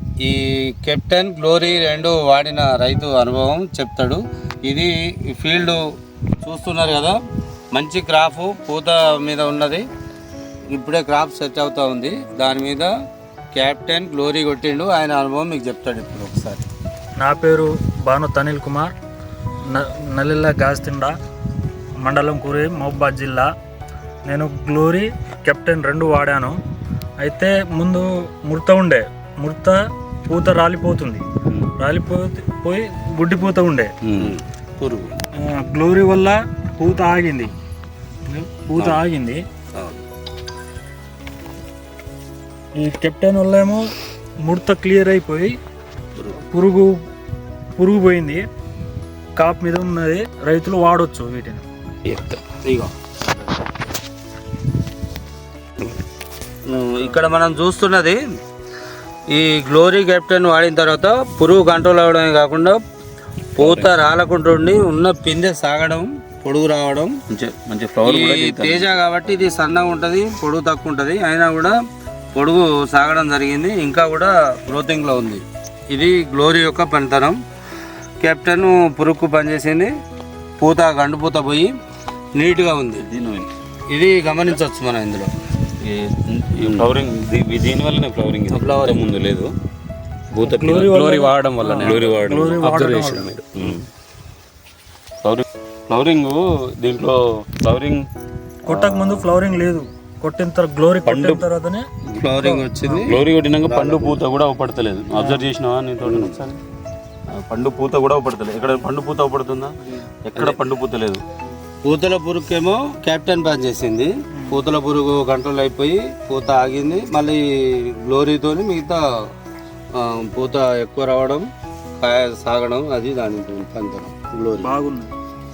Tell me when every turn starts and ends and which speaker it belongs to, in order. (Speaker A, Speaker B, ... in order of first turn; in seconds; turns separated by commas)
Speaker A: 0.2-5.8, Speaker A: 6.4-7.2, Speaker A: 7.7-9.8, Speaker A: 10.7-12.9, Speaker A: 13.5-16.6, Speaker B: 17.2-18.9, Speaker B: 19.7-21.1, Speaker B: 22.0-23.5, Speaker B: 24.3-26.6, Speaker B: 27.2-31.2, Speaker B: 31.8-33.9, Speaker C: 34.0-34.3, Speaker A: 34.1-35.2, Speaker B: 35.4-37.5, Speaker B: 38.3-39.4, Speaker A: 38.8-39.0, Speaker A: 39.7-40.0, Speaker B: 42.8-43.8, Speaker B: 44.4-45.5, Speaker A: 46.2-46.4, Speaker B: 46.5-46.9, Speaker B: 47.8-48.4, Speaker B: 49.4-51.6, Speaker C: 52.1-52.4, Speaker A: 52.5-52.9, Speaker A: 56.7-58.2, Speaker A: 59.3-62.8, Speaker A: 63.6-67.3, Speaker C: 63.6-63.9, Speaker C: 67.3-69.0, Speaker A: 68.0-71.8, Speaker A: 72.3-77.4, Speaker A: 78.2-79.9, Speaker A: 80.6-81.7, Speaker A: 82.3-83.1, Speaker C: 83.0-83.5, Speaker A: 83.9-85.3, Speaker C: 85.9-89.5, Speaker A: 86.5-86.8, Speaker A: 88.5-89.0, Speaker C: 90.4-93.8, Speaker B: 90.4-93.3, Speaker A: 91.3-92.2, Speaker C: 95.2-98.1, Speaker B: 98.7-101.8, Speaker C: 98.7-99.3, Speaker C: 101.0-101.4, Speaker A: 102.1-104.2, Speaker B: 102.4-103.0, Speaker C: 103.0-106.6, Speaker B: 105.1-105.5, Speaker A: 106.0-106.4, Speaker C: 107.3-111.2, Speaker A: 111.8-119.0, Speaker A: 119.9-121.5, Speaker A: 122.0-124.7, Speaker B: 124.6-125.1